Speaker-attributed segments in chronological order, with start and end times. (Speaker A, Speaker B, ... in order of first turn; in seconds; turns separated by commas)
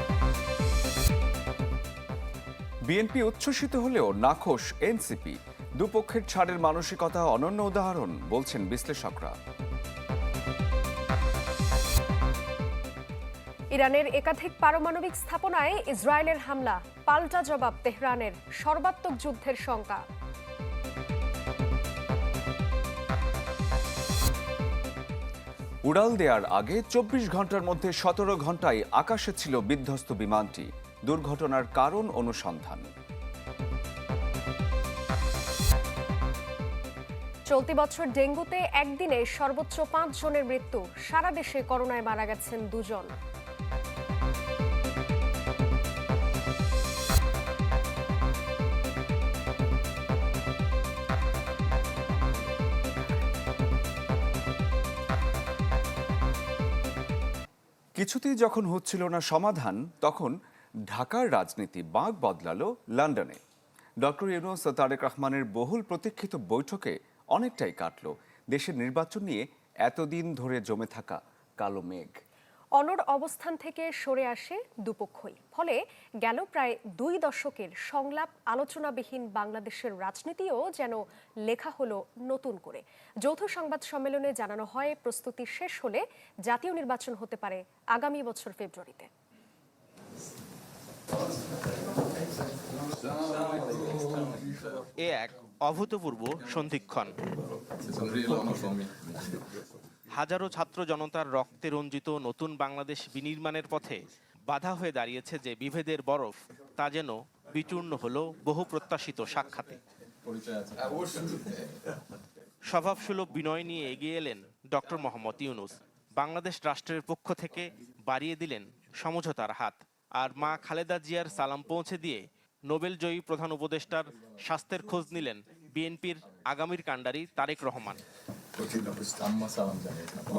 Speaker A: 2.9-9.3, Speaker B: 13.7-20.0, Speaker A: 25.9-32.9, Speaker B: 37.5-43.1, Speaker A: 58.0-60.3, Speaker A: 60.9-63.4, Speaker A: 64.0-72.1, Speaker B: 72.8-89.1, Speaker C: 95.0-97.2, Speaker C: 100.2-109.8, Speaker C: 112.7-128.0